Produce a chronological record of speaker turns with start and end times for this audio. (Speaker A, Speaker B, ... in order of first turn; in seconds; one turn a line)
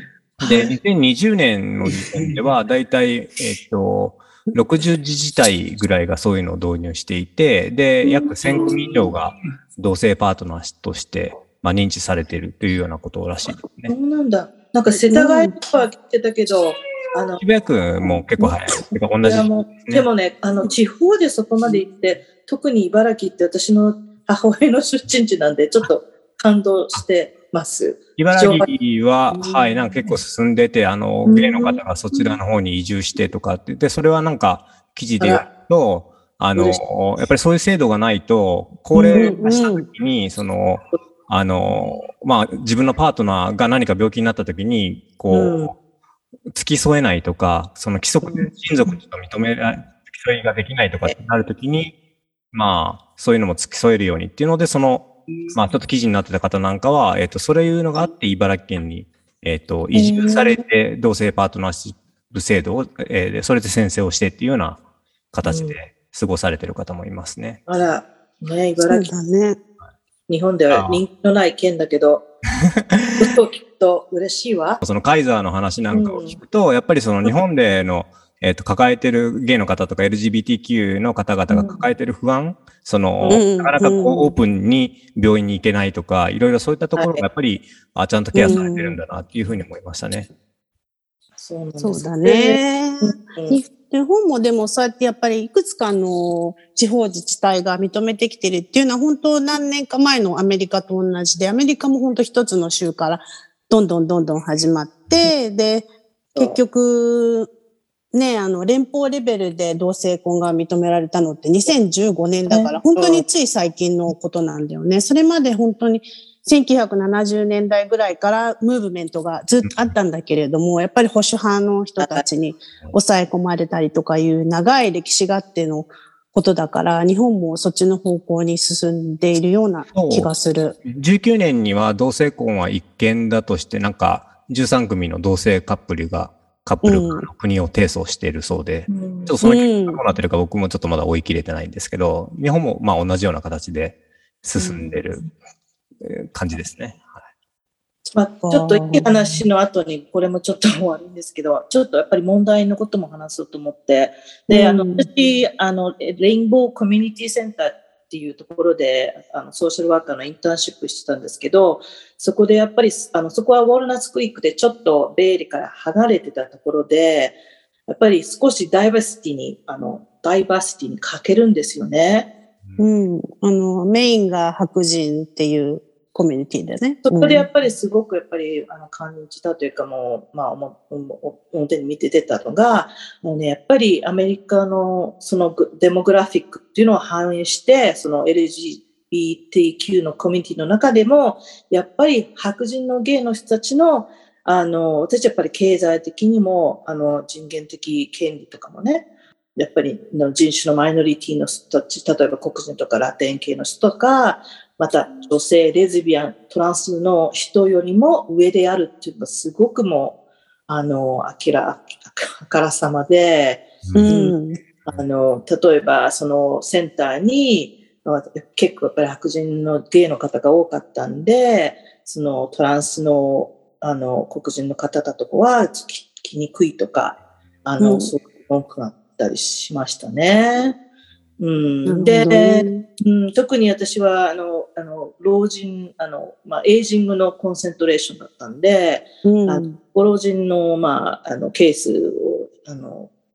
Speaker A: 0.4-0.7
Speaker B: 0.4-13.9
Speaker A: 1.9-2.3
Speaker A: 8.7-9.1
Speaker A: 13.9-17.4
Speaker C: 15.1-15.6
Speaker B: 17.4-20.1
Speaker A: 19.2-28.7
Speaker B: 28.2-45.7
Speaker A: 31.2-32.4
Speaker A: 35.2-35.5
Speaker A: 38.9-39.7
Speaker C: 39.1-39.9
Speaker A: 45.3-45.7
Speaker B: 46.5-51.9
Speaker A: 48.2-49.0
Speaker B: 52.5-64.8
Speaker A: 59.9-60.6
Speaker B: 65.3-67.6
Speaker A: 65.4-65.8
Speaker A: 67.7-69.1
Speaker C: 68.9-69.6
Speaker A: 70.3-72.3
Speaker B: 70.7-71.0
Speaker B: 72.8-73.3
Speaker A: 73.2-74.8
Speaker B: 74.8-90.3
Speaker A: 75.9-76.4
Speaker A: 81.5-81.8
Speaker A: 83.2-84.3
Speaker C: 83.3-84.2
Speaker A: 87.0-87.2
Speaker C: 88.3-89.0
Speaker A: 91.4-93.6
Speaker C: 91.8-107.5
Speaker A: 106.3-106.6
Speaker C: 108.1-130.8
Speaker A: 112.5-113.2
Speaker A: 122.0-122.2
Speaker B: 129.9-130.3
Speaker B: 130.8-145.2
Speaker C: 136.8-137.3
Speaker A: 138.9-139.3
Speaker C: 139.4-140.0
Speaker A: 144.6-145.0
Speaker B: 146.0-147.2
Speaker A: 148.1-167.4
Speaker C: 148.4-149.1
Speaker C: 154.5-155.1
Speaker A: 167.9-172.3
Speaker C: 172.8-177.4
Speaker A: 177.0-210.2
Speaker A: 210.7-230.8
Speaker B: 213.8-214.1
Speaker C: 213.9-214.6
Speaker C: 227.8-228.1
Speaker A: 231.4-243.1
Speaker C: 231.8-232.8
Speaker C: 239.2-239.8